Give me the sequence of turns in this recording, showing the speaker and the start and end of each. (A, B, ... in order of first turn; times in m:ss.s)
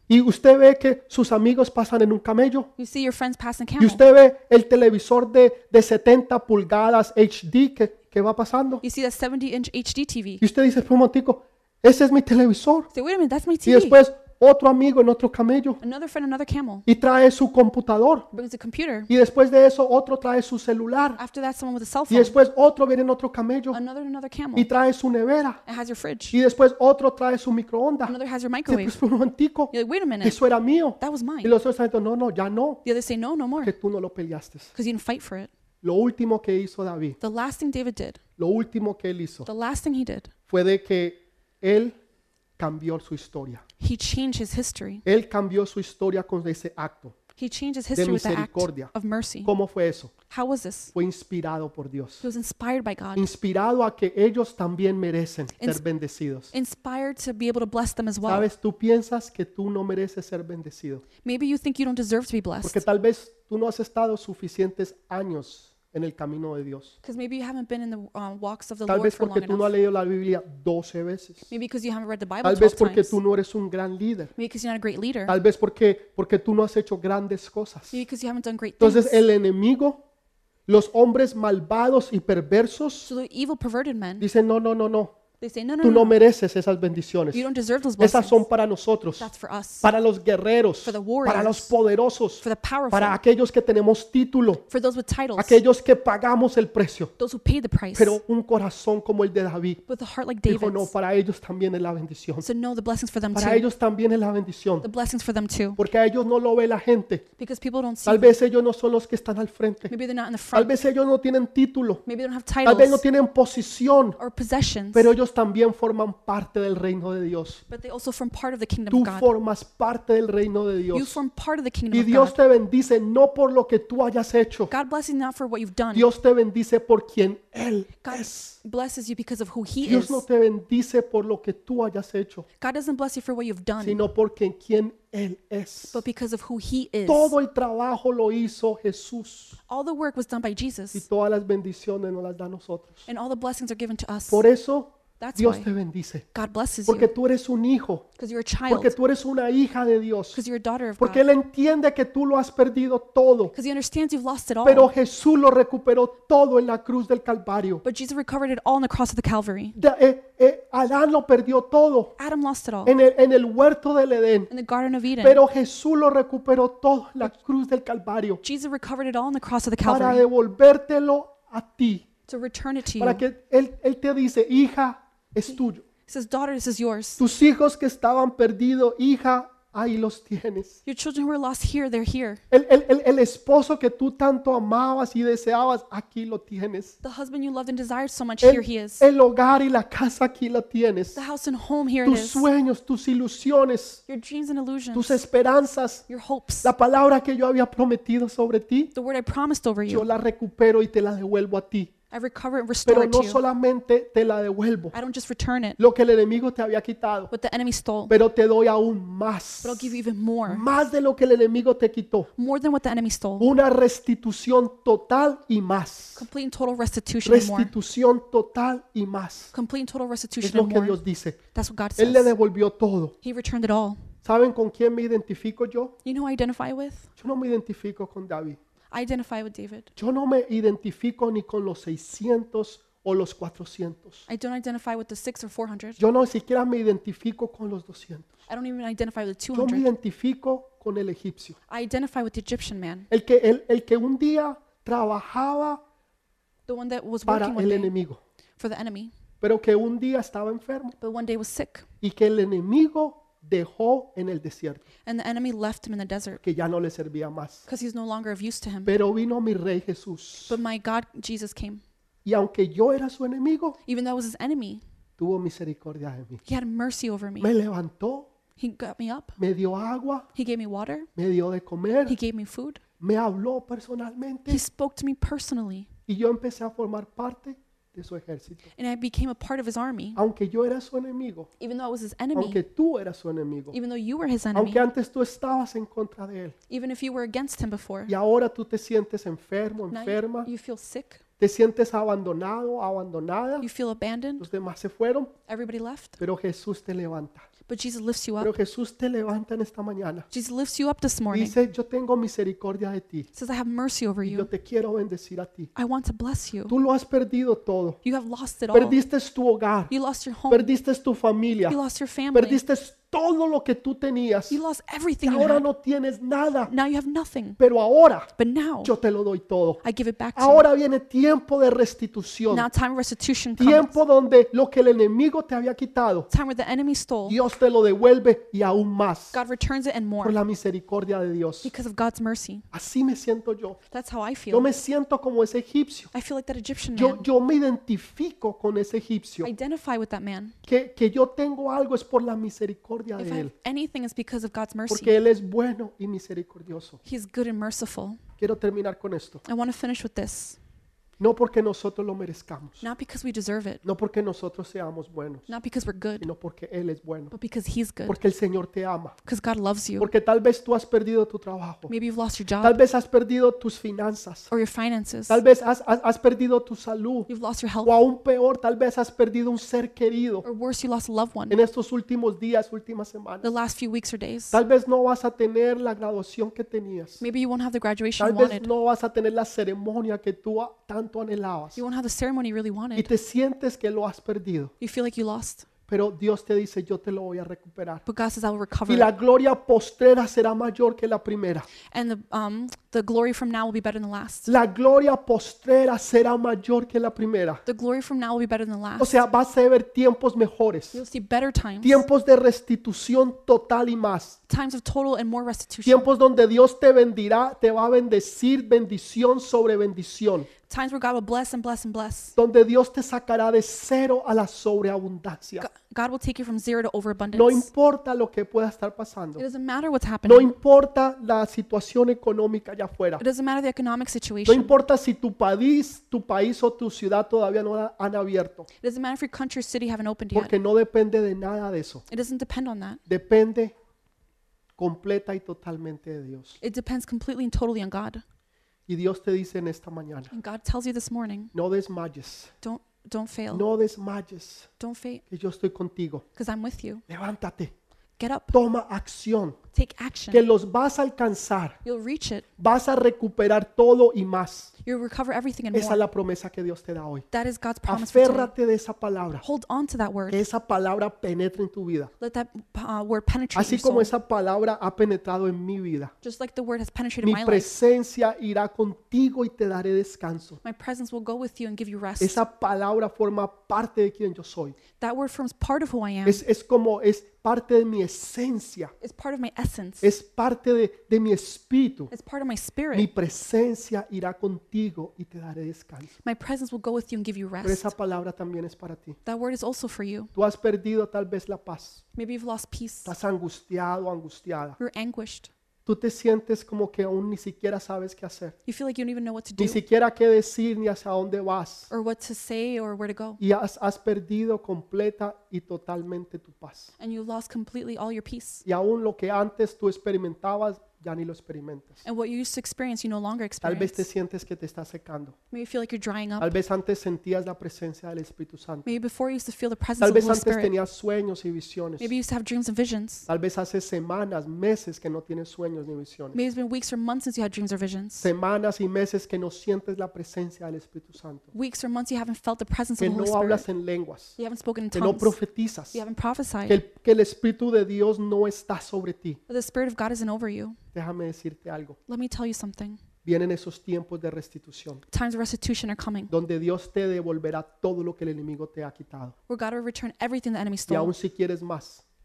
0:00.1-0:02.7 A
0:02.8-0:04.0 B
0:03.8-0:08.8 A
0:08.8-0:10.4 B
0:10.4-0:12.9 A
0:12.9-0:14.0 B
0:13.6-0:15.8 A
0:15.8-0:16.9 B
0:16.9-0:18.3 A
0:18.3-0:19.1 B
0:19.1-0:21.2 A
0:21.2-0:22.3 B
0:22.1-0:23.8 A
0:23.7-0:24.7 B
0:24.6-0:25.6 A
0:25.7-0:26.4 B
0:26.3-0:28.2 A
0:28.1-0:29.0 B
0:28.7-0:32.8 A
0:29.7-0:30.4 B
0:31.0-0:31.5 B
0:32.8-0:33.7 B
0:33.6-0:34.7 A
0:34.8-0:35.5 B
0:35.8-0:37.2 A
0:37.2-0:38.2 B
0:38.4-0:39.5 A
0:39.5-0:40.3 B
0:40.5-0:42.0 A
0:42.6-0:43.6 A
0:43.8-0:45.0 B
0:45.1-0:47.2 A
0:47.4-0:49.5 B
0:48.0-0:48.9 A
0:49.4-0:50.1 A
0:50.3-0:50.9 B
0:50.9-0:52.3 A
0:52.2-0:53.3 B
0:53.2-0:56.5 A
0:56.5-0:58.5 B
0:58.3-1:01.0 A
1:01.2-1:02.8 B
1:02.6-1:07.0 A
1:07.0-1:09.7 B
1:08.9-1:11.5 A
1:11.5-1:13.2 B
1:12.4-1:14.3 A
1:14.4-1:15.4 B
1:15.3-1:18.0 A
1:17.9-1:19.3 B
1:18.8-1:20.0 A
1:20.7-1:23.1 A
1:23.0-1:24.3 B
1:24.2-1:25.2 A
1:25.4-1:26.2 B
1:25.8-1:27.4 A
1:27.3-1:28.4 B
1:28.0-1:29.3 A
1:29.2-1:29.9 B
1:29.8-1:34.6 A
1:30.8-1:31.7 B
1:32.4-1:33.2 B
1:34.7-1:35.6 B
1:35.4-1:37.1 A
1:37.2-1:38.2 B
1:38.0-1:39.8 A
1:39.9-1:40.9 B
1:40.5-1:42.5 A
1:42.4-1:43.7 B
1:43.3-1:44.9 A
1:44.8-1:45.8 B
1:45.8-1:47.2 A
1:47.4-1:48.4 B
1:48.1-1:49.9 A
1:49.9-1:50.7 B
1:50.5-1:52.0 A
1:52.1-1:53.0 B
1:52.6-1:54.2 A
1:54.2-1:55.1 B
1:54.9-1:57.6 A
1:57.7-1:59.3 B
1:58.9-2:01.2 A
2:00.9-2:02.4 B
2:01.9-2:04.7 A
2:04.7-2:06.1 B
2:05.9-2:08.6 A
2:08.0-2:10.2 B
2:09.8-2:12.5 A
2:12.6-2:14.0 B
2:13.8-2:16.0 A
2:15.9-2:17.4 B
2:17.1-2:19.6 A
2:19.7-2:21.1 B
2:20.9-2:23.0 A
2:23.1-2:24.4 B
2:24.3-2:26.2 A
2:25.2-2:25.7 B
2:26.3-2:27.1 B
2:26.9-2:28.1 A
2:28.2-2:28.9 B
2:28.7-2:30.4 A
2:30.3-2:31.2 B
2:31.0-2:33.5 A
2:33.5-2:34.9 B
2:34.6-2:37.8 A
2:37.8-2:39.8 B
2:39.8-2:42.1 A
2:42.2-2:42.9 B
2:42.8-2:44.5 A
2:44.5-2:45.4 B
2:45.2-2:48.4 A
2:48.4-2:50.2 B
2:49.8-2:52.0 A
2:52.3-2:53.2 B
2:53.0-2:55.8 A
2:55.5-2:57.2 B
2:57.2-3:00.8 A
3:00.8-3:02.4 B
3:02.5-3:07.0 A
3:07.0-3:09.0 B
3:08.4-3:11.2 A
3:11.2-3:12.5 B
3:12.0-3:14.0 A
3:14.1-3:15.2 B
3:15.0-3:16.0 A
3:16.1-3:16.7 B
3:16.6-3:18.9 A
3:19.0-3:20.1 B
3:19.9-3:21.9 A
3:22.1-3:23.4 B
3:22.8-3:25.0 A
3:24.9-3:25.8 B
3:25.8-3:27.3 A
3:27.3-3:28.1 B
3:28.1-3:32.3 A
3:29.6-3:30.7 B
3:32.4-3:33.5 B
3:33.4-3:36.2 A
3:36.2-3:37.7 B
3:37.2-3:39.5 A
3:39.5-3:41.0 B
3:40.4-3:41.4 A
3:41.5-3:42.3 B
3:42.0-3:43.2 A
3:43.2-3:44.0 B
3:44.2-3:45.9 A
3:46.0-3:47.1 B
3:47.2-3:48.6 A
3:48.9-3:49.9 B
3:50.0-3:54.3 A
3:54.3-3:56.0 B
3:56.0-3:58.4 A
3:58.5-3:59.9 B
3:59.5-4:01.6 A
4:01.7-4:03.1 B
4:03.1-4:05.8 A
4:06.7-4:07.9 B
4:07.3-4:08.2 A
4:08.6-4:09.1 B
4:09.4-4:11.0 A
4:11.0-4:11.9 B
4:12.0-4:14.8 A
4:15.0-4:16.4 B
4:16.4-4:17.7 A
4:17.7-4:19.0 B
4:18.8-4:20.6 A
4:20.5-4:21.8 B
4:22.2-4:23.8 A
4:23.8-4:24.8 B
4:25.2-4:26.4 A
4:26.4-4:27.5 B
4:27.4-4:28.3 A
4:28.6-4:29.4 B
4:29.4-4:30.3 A
4:30.3-4:31.1 B
4:31.2-4:32.2 A
4:32.1-4:32.8 B
4:33.0-4:34.6 A
4:34.5-4:35.9 B
4:36.1-4:38.7 A
4:38.8-4:40.2 B
4:40.2-4:41.5 A
4:41.6-4:42.6 B
4:42.4-4:43.8 A
4:43.7-4:44.8 B
4:44.5-4:46.6 A
4:46.7-4:48.1 B
4:48.1-4:50.5 A
4:49.9-4:51.2 B
4:51.4-4:53.7 A
4:53.6-4:54.5 B
4:54.4-4:55.3 A
4:55.5-4:56.2 B
4:56.2-4:57.5 A
4:57.7-4:58.5 B
4:58.4-5:00.3 A
5:00.3-5:01.6 B
5:01.3-5:03.3 A
5:03.3-5:04.5 B
5:04.2-5:05.7 A
5:05.8-5:06.8 B
5:06.7-5:08.0 A
5:08.0-5:09.0 B
5:08.7-5:09.9 A
5:09.9-5:10.7 B
5:10.5-5:11.8 A
5:11.7-5:12.6 B
5:12.3-5:14.6 A
5:14.5-5:15.7 B
5:15.2-5:16.7 A
5:16.7-5:17.6 B
5:17.6-5:18.3 A
5:18.4-5:18.9 B
5:18.8-5:19.8 A
5:19.8-5:20.7 B
5:20.4-5:22.7 A
5:22.5-5:24.0 B
5:23.6-5:26.3 A
5:26.3-5:27.4 B
5:27.3-5:29.4 A
5:29.3-5:30.4 B
5:30.2-5:31.7 A
5:31.6-5:32.7 B
5:32.7-5:33.8 A
5:33.9-5:34.7 B
5:34.5-5:36.1 A
5:36.1-5:37.3 B
5:37.0-5:39.5 A
5:39.4-5:40.6 B
5:40.7-5:43.5 A
5:43.2-5:45.2 B
5:44.9-5:47.0 A
5:47.0-5:48.2 B
5:48.4-5:49.4 A
5:49.4-5:50.6 B
5:51.2-5:52.8 A
5:52.8-5:53.8 B
5:53.8-5:55.5 A
5:55.5-5:56.3 B
5:56.2-5:57.3 A
5:57.3-5:58.2 B
5:58.1-5:59.2 A
5:59.2-6:00.1 B
6:00.0-6:01.9 A
6:01.9-6:02.8 B
6:02.6-6:04.5 A
6:04.5-6:05.4 B
6:05.3-6:07.3 A
6:07.3-6:08.0 B
6:07.8-6:10.4 A
6:10.4-6:11.6 B
6:11.5-6:13.5 A
6:13.4-6:14.6 B
6:14.5-6:17.2 A
6:17.2-6:18.7 B
6:18.2-6:21.8 A
6:21.8-6:23.1 B
6:23.0-6:24.7 A
6:24.8-6:25.7 B
6:25.9-6:28.0 A
6:28.1-6:29.1 B
6:28.9-6:31.7 A
6:31.9-6:34.5 B
6:34.5-6:37.6 A
6:37.6-6:39.2 B
6:39.0-6:41.0 A
6:40.9-6:42.0 B
6:41.8-6:44.4 A
6:44.5-6:46.1 B
6:45.8-6:50.5 A
6:50.7-6:52.4 B
6:52.4-6:55.7 A
6:55.6-6:57.7 B
6:57.3-6:59.4 A
6:59.4-7:00.5 B
7:00.3-7:03.2 A
7:03.2-7:04.7 B
7:04.5-7:08.7 A
7:08.8-7:10.5 B
7:10.3-7:12.0 A
7:12.1-7:13.0 B
7:13.1-7:13.7 A
7:14.8-7:16.6 A
7:16.6-7:18.2 B
7:18.9-7:20.3 A
7:20.3-7:21.5 B
7:21.5-7:22.5 A
7:22.6-7:23.7 B
7:23.5-7:24.7 A
7:24.8-7:25.2 B
7:25.3-7:26.2 A
7:26.4-7:27.0 B
7:27.1-7:27.7 A
7:28.2-7:28.6 B
7:28.5-7:29.6 A
7:29.7-7:30.4 B
7:30.3-7:31.8 A
7:31.8-7:32.5 B
7:32.6-7:34.7 A
7:34.8-7:36.0 B
7:35.7-7:37.2 A
7:37.3-7:38.5 B
7:37.9-7:39.4 A
7:39.4-7:40.4 B
7:40.3-7:42.1 A
7:42.2-7:44.1 B
7:43.6-7:46.1 A
7:46.2-7:47.7 B
7:47.2-7:50.6 A
7:50.6-7:52.4 B
7:52.2-7:54.8 A
7:55.0-7:56.4 B
7:56.3-7:58.9 A
7:59.0-8:00.1 B
8:00.0-8:02.1 A
8:02.1-8:03.1 B
8:02.9-8:06.2 A
8:06.2-8:07.9 B
8:07.6-8:09.2 A
8:09.2-8:10.3 B
8:10.4-8:12.0 A
8:12.2-8:13.1 B
8:13.0-8:14.8 A
8:14.8-8:15.5 B
8:15.9-8:18.6 A
8:18.7-8:19.8 B
8:19.6-8:21.9 A
8:21.9-8:23.4 B
8:23.4-8:26.9 A
8:27.0-8:28.6 B
8:28.7-8:32.0 A
8:32.0-8:34.1 B
8:33.6-8:35.4 A
8:35.5-8:36.5 B
8:36.4-8:38.9 A
8:38.9-8:40.7 B
8:40.0-8:42.1 A
8:42.0-8:43.3 B
8:43.3-8:46.4 A
8:46.3-8:48.3 B
8:48.2-8:51.5 A
8:51.5-8:53.7 B
8:53.0-8:54.4 A
8:54.4-8:55.4 B
8:54.9-8:56.0 A
8:55.9-8:56.8 B
8:56.7-8:59.4 A
8:59.5-9:00.8 B
9:00.9-9:02.0 A
9:02.1-9:03.0 B
9:03.2-9:05.0 A
9:05.1-9:06.3 B
9:06.3-9:09.4 A
9:09.5-9:11.1 B
9:10.9-9:12.0 A